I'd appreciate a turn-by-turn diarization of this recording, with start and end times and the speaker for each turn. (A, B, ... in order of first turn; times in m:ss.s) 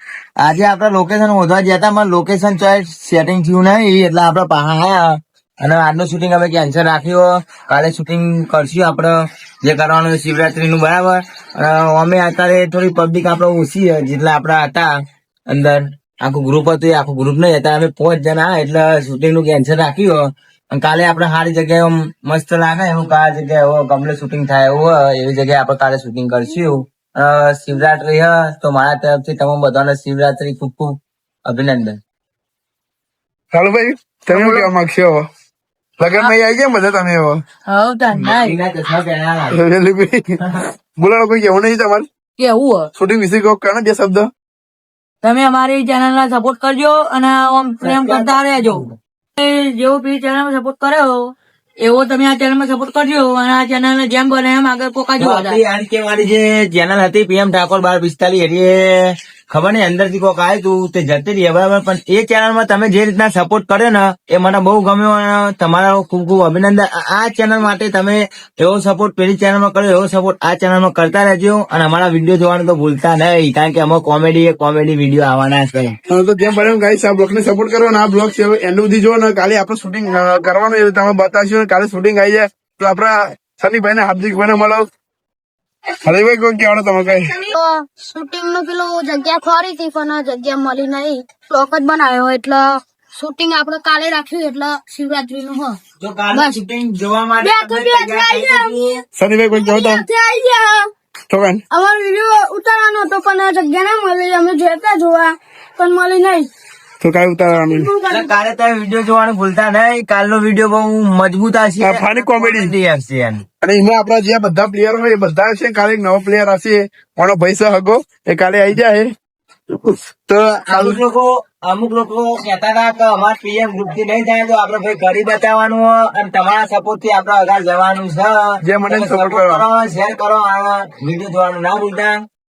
0:00.4-0:14.9 A
0:15.5-0:32.0 A
0:33.5-0:35.3 B
0:34.3-0:34.7 C
0:36.0-0:37.4 B
0:37.7-0:38.6 C
0:38.1-0:39.6 A
0:39.5-0:40.4 B
0:41.0-0:42.1 B
0:42.4-0:42.9 C
0:43.0-0:44.3 B
0:45.2-0:48.8 C
0:47.8-0:49.0 A
0:49.4-0:55.6 C
0:55.2-0:58.9 A
0:59.5-1:16.0 A
1:16.1-1:24.9 B
1:26.0-1:27.4 B
1:27.5-1:35.8 D
1:36.0-1:39.0 A
1:36.3-1:36.6 D
1:37.4-1:38.7 D
1:39.2-1:40.0 B
1:39.5-1:40.8 D
1:41.3-1:41.6 B
1:41.7-1:46.5 D
1:47.0-1:47.9 B
1:47.6-1:48.3 D
1:48.1-1:53.4 A
1:51.8-1:52.7 B
1:53.6-1:59.1 B
1:59.8-2:01.0 B
2:00.7-2:12.2 A
2:08.6-2:09.6 B